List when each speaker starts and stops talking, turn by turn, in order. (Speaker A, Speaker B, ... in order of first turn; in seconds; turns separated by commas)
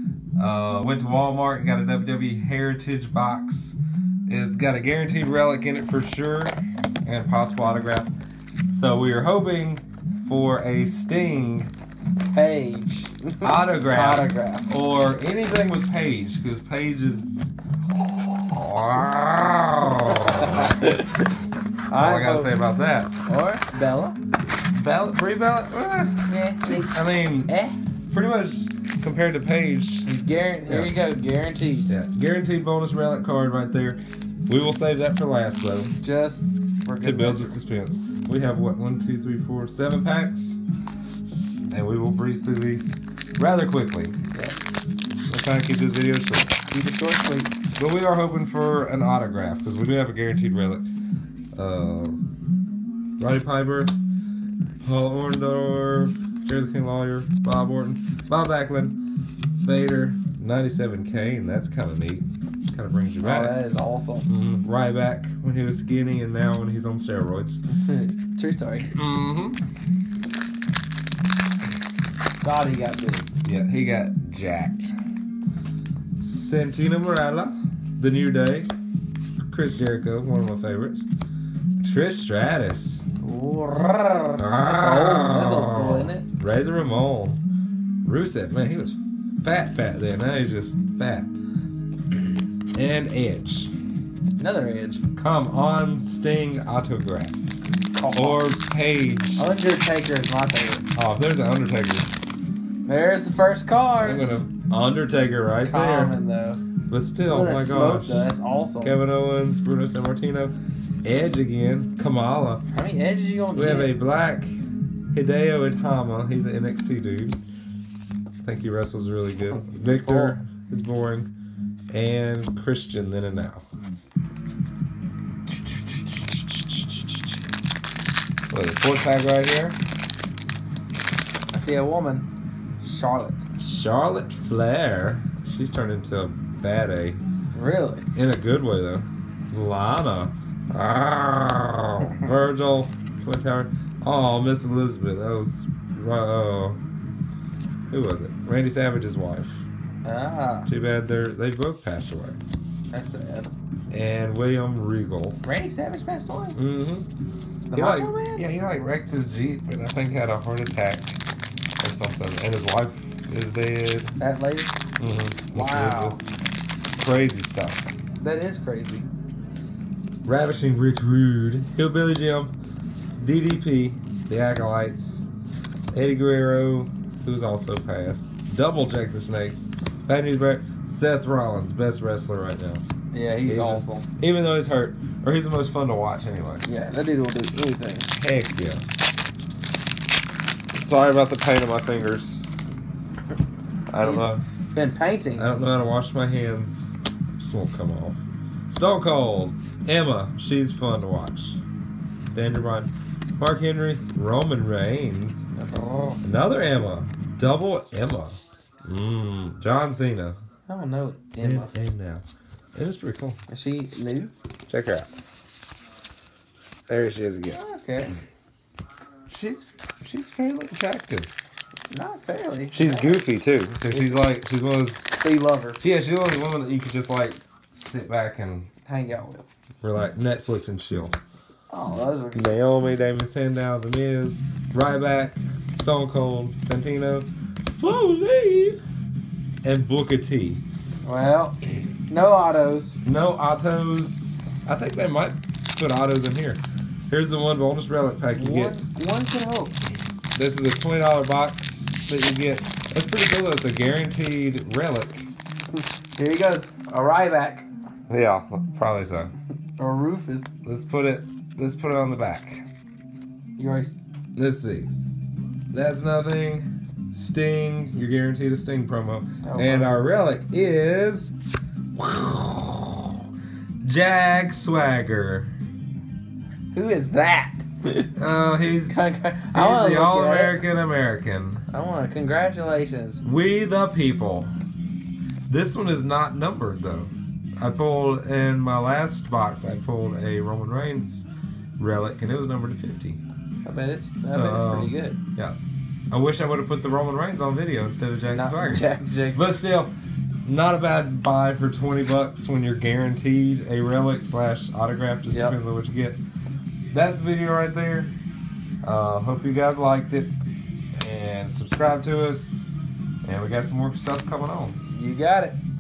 Speaker A: 0.4-8.1, Speaker A: 8.7-11.7, Speaker B: 12.3-14.7, Speaker A: 13.4-17.5, Speaker A: 18.5-20.8, Speaker B: 20.1-21.1, Speaker B: 21.9-22.6, Speaker A: 21.9-23.1, Speaker B: 23.3-24.2, Speaker A: 24.7-27.6, Speaker B: 26.3-27.8, Speaker A: 28.1-30.1, Speaker B: 30.1-31.9, Speaker A: 30.7-31.0, Speaker A: 31.9-36.0, Speaker B: 36.0-37.6, Speaker A: 37.0-40.6, Speaker A: 41.7-44.2, Speaker A: 45.3-46.6, Speaker B: 46.7-47.6, Speaker A: 47.7-50.9, Speaker A: 51.5-52.2, Speaker A: 53.2-53.9, Speaker A: 54.8-59.0, Speaker A: 59.6-63.6, Speaker B: 63.2-64.3, Speaker A: 64.3-67.6, Speaker B: 67.7-68.9, Speaker A: 68.9-69.6, Speaker B: 72.4-73.3, Speaker A: 73.4-75.0, Speaker A: 76.2-78.7, Speaker A: 79.5-81.1, Speaker A: 81.8-83.0, Speaker B: 83.2-86.2, Speaker A: 84.4-87.4, Speaker A: 88.0-91.3, Speaker A: 92.8-93.7, Speaker B: 94.4-95.0, Speaker A: 95.2-97.4, Speaker B: 98.0-98.5, Speaker A: 98.2-99.5, Speaker B: 99.4-100.8, Speaker A: 101.0-102.1, Speaker B: 102.8-104.2, Speaker A: 104.0-106.2, Speaker B: 105.6-106.6, Speaker A: 106.9-108.2, Speaker B: 107.3-109.0, Speaker A: 108.8-110.5, Speaker A: 111.0-112.6, Speaker B: 112.7-113.9, Speaker A: 113.5-114.5, Speaker A: 115.1-117.4, Speaker A: 118.4-121.3, Speaker B: 119.5-120.4, Speaker A: 121.9-123.6, Speaker A: 126.3-127.0, Speaker A: 128.5-129.8, Speaker B: 131.5-132.3, Speaker B: 132.8-133.5, Speaker A: 133.6-137.2, Speaker B: 137.5-138.1, Speaker A: 138.1-146.8, Speaker A: 147.9-149.7, Speaker B: 150.0-150.7, Speaker A: 150.7-152.4, Speaker B: 152.9-153.5, Speaker A: 153.9-155.4, Speaker B: 155.4-156.6, Speaker A: 156.6-157.1, Speaker B: 157.7-158.4, Speaker A: 157.7-161.2, Speaker A: 161.8-164.2, Speaker B: 164.2-164.8, Speaker A: 165.0-166.2, Speaker B: 165.5-166.2, Speaker A: 167.0-167.8, Speaker B: 168.2-169.1, Speaker A: 170.2-172.5, Speaker A: 173.2-175.3, Speaker A: 175.9-182.8, Speaker B: 183.1-184.1, Speaker A: 183.4-186.7, Speaker B: 186.6-188.1, Speaker A: 188.2-188.8, Speaker A: 190.7-192.4, Speaker A: 193.9-194.4, Speaker B: 194.0-195.5, Speaker A: 195.4-201.6, Speaker A: 202.3-205.5, Speaker B: 205.6-206.2, Speaker A: 206.2-210.4, Speaker B: 210.7-211.7, Speaker A: 211.4-212.2, Speaker A: 212.8-213.4, Speaker B: 213.5-214.3, Speaker A: 214.7-215.1, Speaker A: 216.9-217.6, Speaker B: 217.5-218.1, Speaker A: 219.3-221.3, Speaker B: 221.9-223.2, Speaker A: 222.7-225.1, Speaker B: 223.9-224.2, Speaker B: 225.2-225.8, Speaker A: 225.8-228.7, Speaker B: 228.9-229.5, Speaker A: 229.8-231.2, Speaker B: 231.7-232.6, Speaker A: 232.3-237.3, Speaker A: 237.8-238.8, Speaker A: 239.6-240.6, Speaker B: 241.0-243.0, Speaker A: 243.1-248.8, Speaker B: 248.4-249.8, Speaker A: 250.3-255.3, Speaker B: 255.7-257.7, Speaker A: 258.1-259.3, Speaker B: 259.8-260.5, Speaker A: 260.6-262.6, Speaker B: 263.6-264.0, Speaker A: 264.4-264.9, Speaker A: 265.7-271.3, Speaker B: 269.4-270.0, Speaker A: 272.0-273.2, Speaker A: 273.8-275.5, Speaker B: 276.7-278.1, Speaker A: 278.1-279.0, Speaker B: 278.9-280.6, Speaker A: 279.5-281.6, Speaker B: 281.7-283.2, Speaker A: 283.2-284.5, Speaker A: 285.5-291.3, Speaker A: 291.8-293.2, Speaker B: 293.6-295.2, Speaker A: 294.3-295.6, Speaker A: 296.1-299.9, Speaker B: 298.3-299.4, Speaker A: 300.4-306.2, Speaker B: 305.3-305.6, Speaker A: 306.9-308.1, Speaker A: 308.8-310.4, Speaker A: 311.0-312.7, Speaker A: 313.2-314.8, Speaker B: 314.9-315.6